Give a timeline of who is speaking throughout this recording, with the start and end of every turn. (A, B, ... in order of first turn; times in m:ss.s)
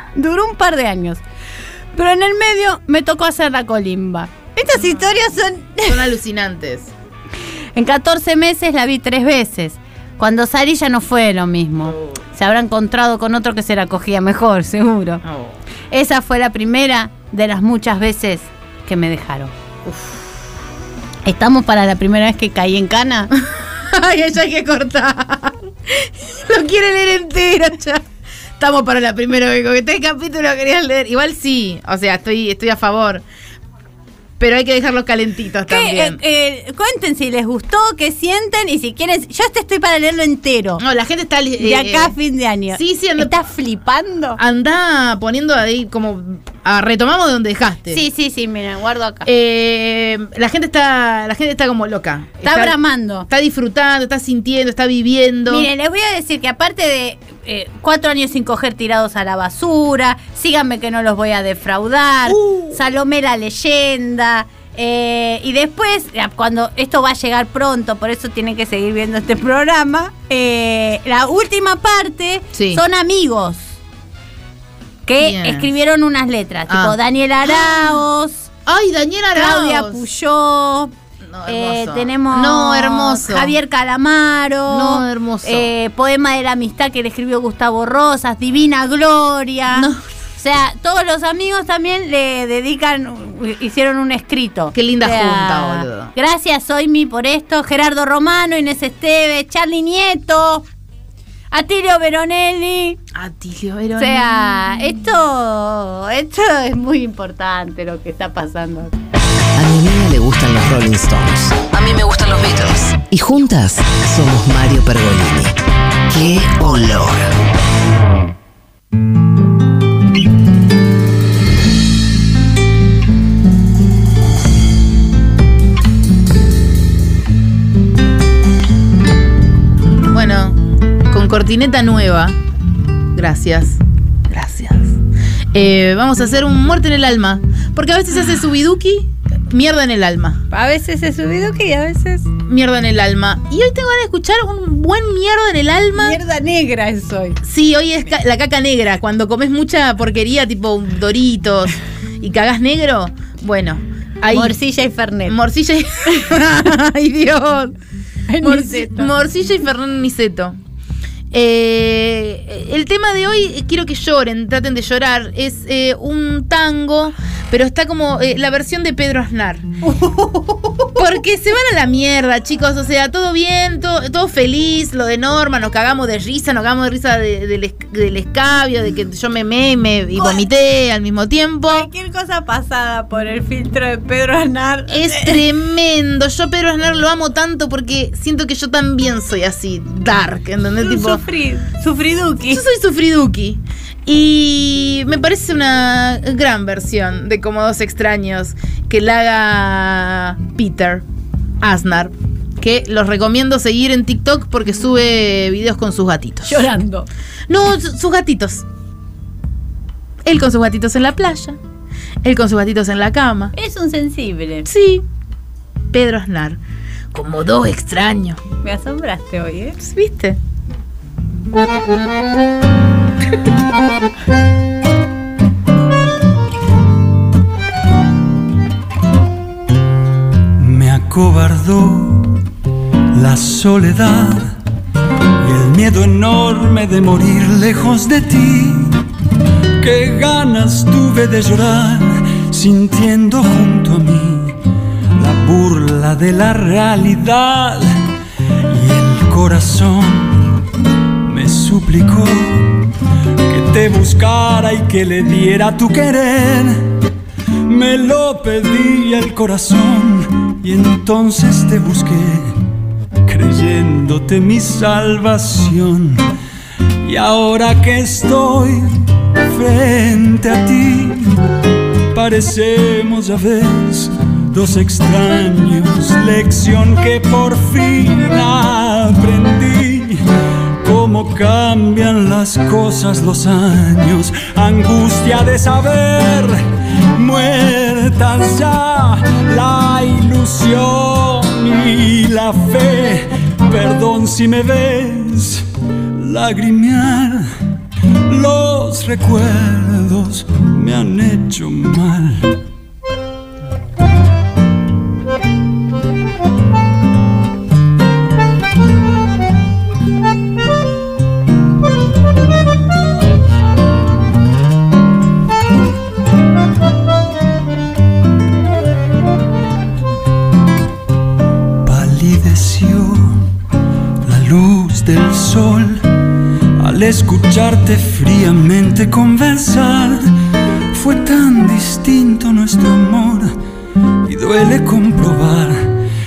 0:00.1-0:01.2 A
0:02.0-0:06.1 A
0:04.8-0:05.2 B
0:05.8-0:06.9 B
0:07.8-0:15.2 A
0:15.2-0:15.6 B
0:15.9-0:19.5 A
0:19.8-0:20.3 B
0:21.2-0:23.3 A
0:23.4-0:28.0 B
0:28.6-0:33.2 B
0:34.4-0:36.2 B
0:35.7-0:40.8 A
0:40.8-0:42.2 B
0:41.6-0:44.4 A
0:42.7-0:43.4 B
0:44.4-0:48.0 B
0:47.9-0:49.3 A
0:49.2-0:55.7 B
0:52.4-0:53.3 A
0:55.5-1:13.7 A
1:02.3-1:02.8 B
1:12.5-1:12.8 B
1:15.1-1:18.5 A
1:15.2-1:15.7 B
1:16.7-1:17.9 B
1:18.7-1:20.0 B
1:19.4-1:20.9 A
1:21.2-1:23.6 B
1:21.5-1:40.7 A
1:24.7-1:25.7 B
1:29.7-1:30.0 B
1:34.7-1:36.1 B
1:41.5-1:43.0 A
1:43.1-1:44.6 B
1:44.0-1:48.9 A
1:49.6-1:55.6 C
1:56.1-1:57.3 C
2:10.0-2:12.4 B
2:13.1-2:15.0 B
2:15.5-2:20.4 B
2:20.5-2:22.3 A
2:22.4-2:26.2 B
2:26.0-2:27.4 A
2:27.4-2:34.6 B
2:34.3-2:35.4 A
2:35.3-2:37.8 B
2:36.1-2:36.4 A
2:38.3-2:39.1 A
2:38.4-2:40.6 B
2:41.3-2:49.7 B
2:49.8-2:51.2 A
2:51.0-3:01.9 B
3:00.2-3:00.4 A
3:01.7-3:05.4 A
3:04.9-3:11.2 B
3:10.8-3:12.6 A
3:12.5-3:21.0 B
3:21.6-3:26.7 B
3:26.4-3:27.1 A
3:27.5-3:28.6 B
3:30.2-3:31.6 B
3:32.2-3:33.5 B
3:33.6-3:34.7 A
3:34.6-3:35.0 B
3:35.9-3:36.6 B
3:37.1-3:38.4 B
3:38.6-3:39.8 A
3:39.8-3:40.4 B
3:50.6-3:52.4 D
3:53.1-3:54.6 D
3:55.4-3:59.0 D
3:59.8-4:04.6 D
4:05.2-4:07.9 D
4:08.7-4:10.5 D
4:11.2-4:12.9 D
4:13.5-4:17.0 D
4:17.7-4:22.5 D
4:23.3-4:26.2 D
4:27.0-4:28.9 D
4:29.4-4:31.3 D
4:32.1-4:40.2 D
4:40.8-4:46.6 D
4:47.2-4:55.6 D
4:56.2-4:57.5 D
4:58.3-5:02.4 D
5:21.8-5:23.4 D
5:24.2-5:26.1 D
5:26.8-5:30.3 D
5:30.9-5:33.5 D
5:34.2-5:35.8 D